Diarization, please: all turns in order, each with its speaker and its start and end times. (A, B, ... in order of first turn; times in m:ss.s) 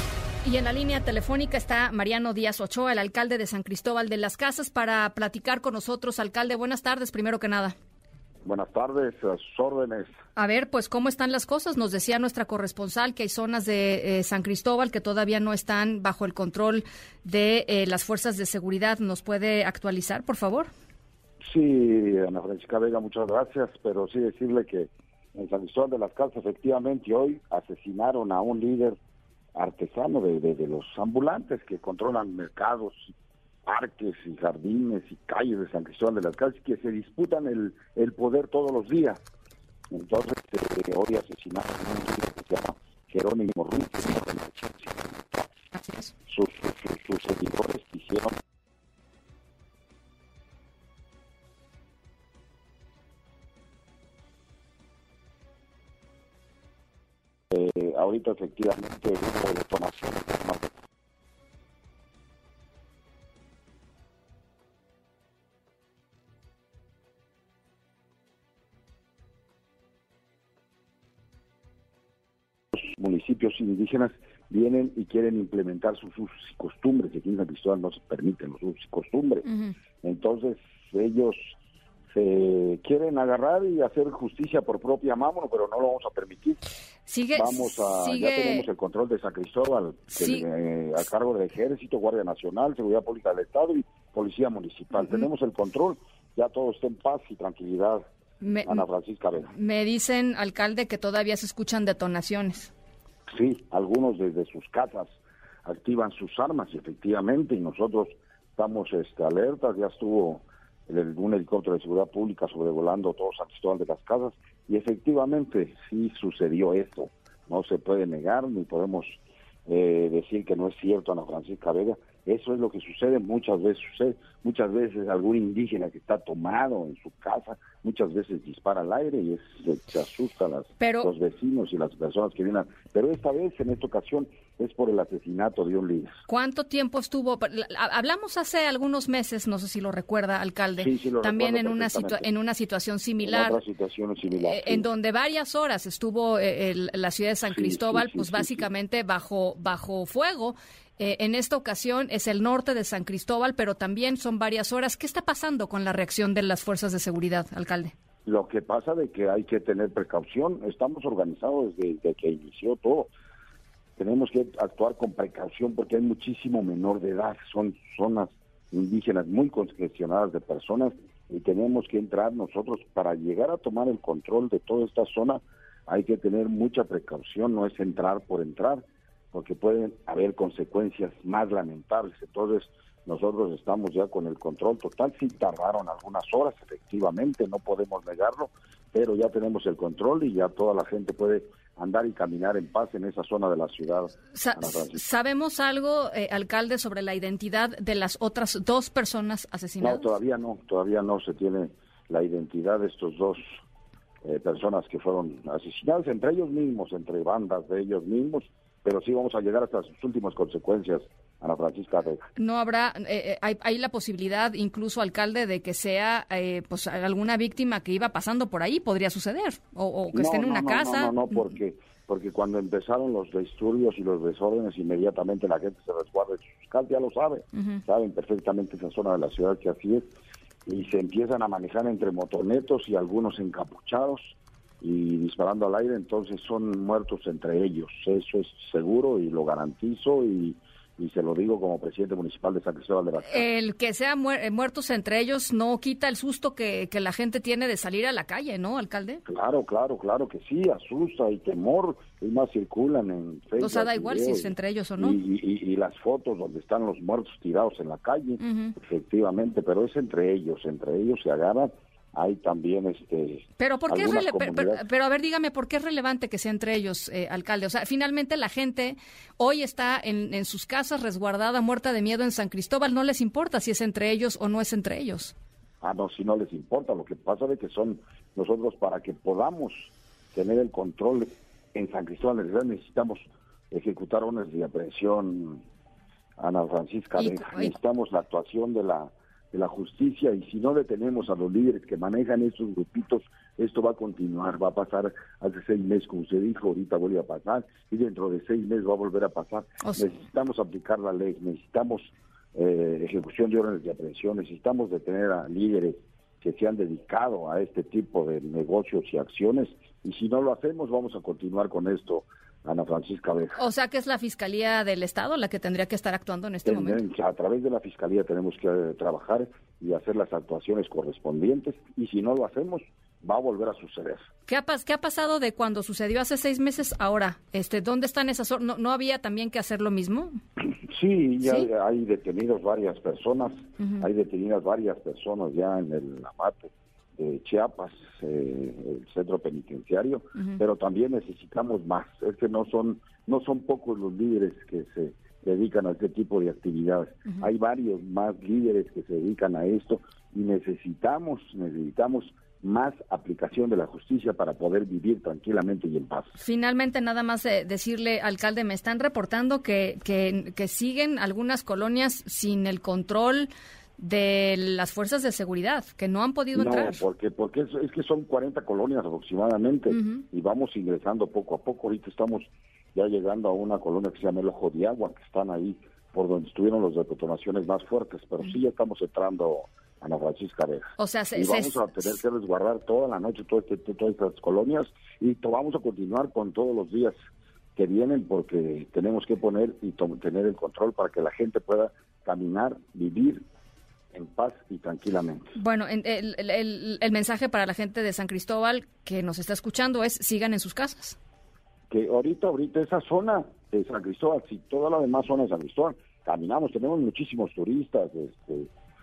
0:00.4-0:07.8 A
0:08.4-0:10.2 B
0:10.4-0:20.7 A
0:21.4-0:29.0 B
0:29.5-0:33.1 B
0:33.6-0:39.2 B
0:39.9-0:45.5 B
0:45.8-0:46.1 A
0:46.3-0:48.4 B
0:57.5-1:00.7 B
1:12.8-1:19.5 B
1:19.5-1:19.8 A
1:20.0-1:21.6 B
1:22.1-1:26.6 B
1:27.1-1:28.7 A
1:27.4-1:38.1 B
1:30.1-1:30.4 A
1:35.0-1:35.3 A
1:38.4-1:38.9 A
1:38.6-1:39.5 B
1:39.5-1:42.7 A
1:43.3-2:16.2 B
2:10.8-2:11.1 A
2:16.3-2:23.6 A
2:20.8-2:22.3 B
2:23.2-2:24.9 B
2:24.3-2:37.9 A
2:27.5-2:28.7 B
2:38.2-2:43.1 B
2:44.0-3:15.0 B
3:14.3-3:20.1 A
3:19.8-3:23.6 B
3:24.2-3:32.2 B
3:32.4-3:41.5 A
3:40.1-3:50.1 B
3:47.6-3:47.8 A
3:50.7-4:03.5 B
4:03.2-4:09.2 A
4:09.3-4:24.9 B
4:13.6-4:15.2 A
4:18.4-4:18.8 A
4:23.6-4:35.3 A
4:35.8-4:45.6 B
4:46.4-5:13.6 B
4:47.2-4:47.7 A
5:13.6-5:17.0 A
5:16.6-5:24.2 B
5:24.5-5:30.4 A
5:30.6-5:56.4 B
5:31.4-5:31.7 A
5:56.4-6:07.1 A
6:06.6-6:27.1 B
6:09.9-6:10.2 A
6:21.0-6:22.2 A
6:27.8-6:33.4 B
6:34.1-6:35.5 B
6:35.6-6:41.2 A
6:41.9-6:48.7 B